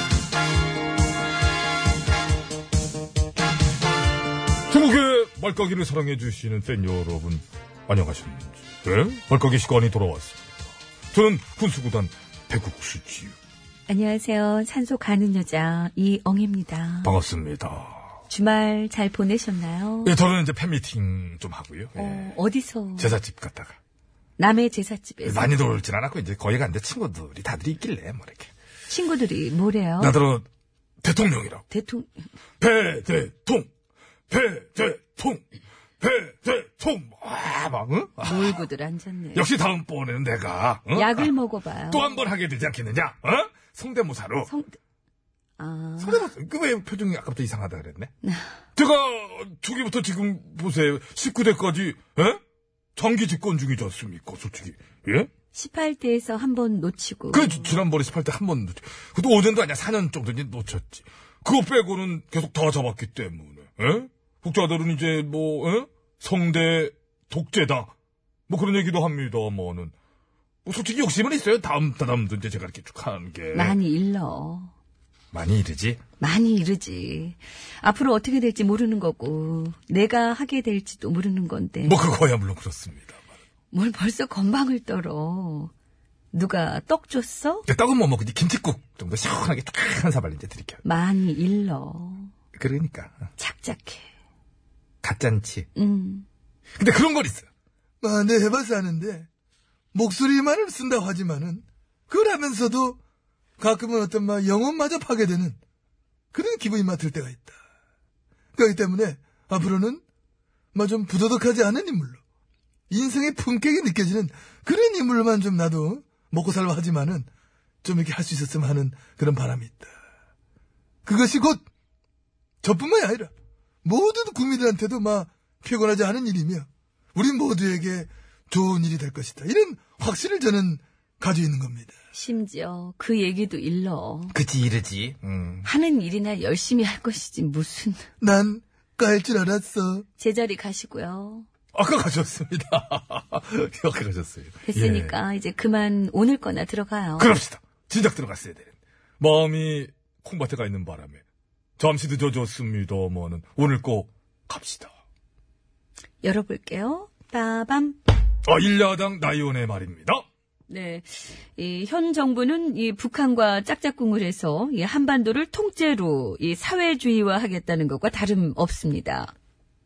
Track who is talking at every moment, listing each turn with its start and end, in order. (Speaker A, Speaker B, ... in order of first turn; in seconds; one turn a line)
Speaker A: 4.7-10.4
Speaker A: 11.1-13.3
Speaker B: 13.9-17.1
Speaker A: 17.0-18.1
Speaker B: 18.3-20.1
Speaker A: 20.1-22.3
Speaker B: 22.0-23.1
Speaker A: 23.0-23.8
Speaker B: 24.4-25.5
Speaker A: 25.2-28.5
Speaker B: 28.9-30.1
Speaker A: 30.0-30.4
Speaker A: 31.0-31.6
Speaker B: 31.7-32.1
Speaker A: 32.6-33.7
Speaker A: 34.3-35.4
Speaker A: 36.0-38.6
Speaker B: 38.2-39.5
Speaker A: 39.4-41.3
Speaker B: 40.9-42.2
Speaker A: 41.9-44.5
Speaker B: 44.5-44.7
Speaker B: 45.6-46.3
Speaker A: 46.0-48.1
Speaker A: 48.8-52.4
Speaker A: 53.0-55.3
Speaker B: 55.5-57.7
Speaker A: 57.3-67.9
Speaker A: 68.5-69.9
Speaker A: 70.7-73.8
Speaker B: 73.5-74.7
Speaker A: 75.3-76.0
Speaker B: 76.2-82.0
Speaker A: 81.8-83.2
Speaker B: 83.7-85.7
Speaker B: 86.3-87.7
Speaker A: 87.7-90.8
Speaker B: 90.8-92.3
Speaker A: 92.5-93.2
Speaker B: 93.4-94.1
Speaker A: 95.0-95.7
Speaker B: 95.8-96.3
Speaker A: 96.8-97.5
Speaker C: 98.0-99.3
Speaker C: 99.9-103.0
Speaker C: 103.6-105.6
Speaker C: 106.3-107.6
Speaker C: 108.5-110.0
Speaker C: 110.7-112.2
Speaker C: 112.9-117.3
Speaker C: 117.8-119.9
Speaker C: 121.0-121.6
Speaker C: 122.6-123.3
Speaker C: 123.8-131.9
Speaker B: 132.1-134.4
Speaker A: 134.3-135.7
Speaker B: 135.7-138.1
Speaker C: 138.2-140.1
Speaker B: 140.2-141.5
Speaker A: 141.7-145.2
Speaker B: 144.7-147.3
Speaker A: 147.2-151.2
Speaker A: 151.8-154.9
Speaker B: 156.2-158.0
Speaker A: 158.4-160.2
Speaker B: 160.7-169.3